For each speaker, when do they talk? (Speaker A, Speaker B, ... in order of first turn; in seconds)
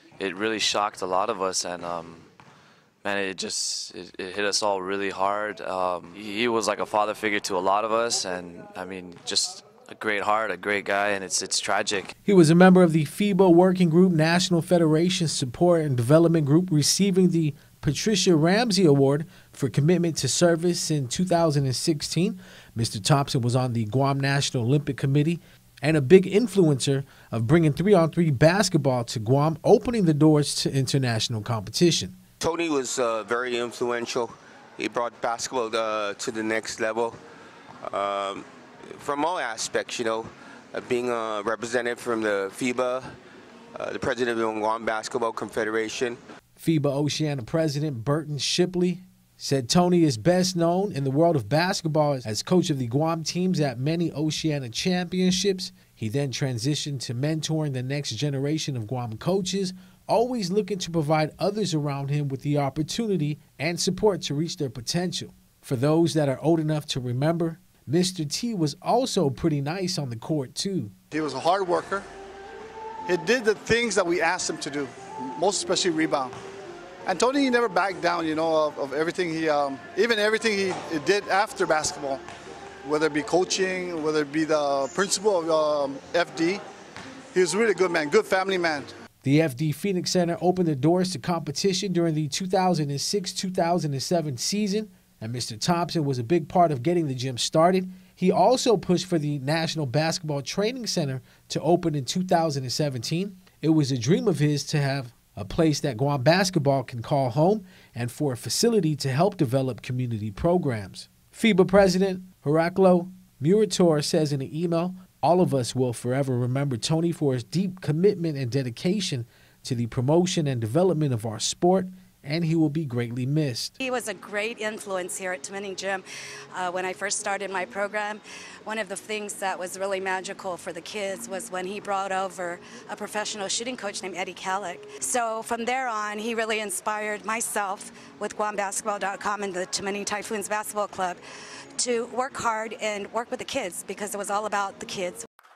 Speaker A: 0.2-2.3, 3.0-12.1
Speaker B: 12.2-32.2, 46.6-70.9, 89.2-123.7
Speaker C: 32.4-37.2, 37.8-43.1, 43.7-46.2
Speaker D: 71.1-72.1, 73.0-76.3, 77.0-82.2, 82.8-86.6, 87.3-88.9
Speaker E: 123.8-141.2, 141.8-145.2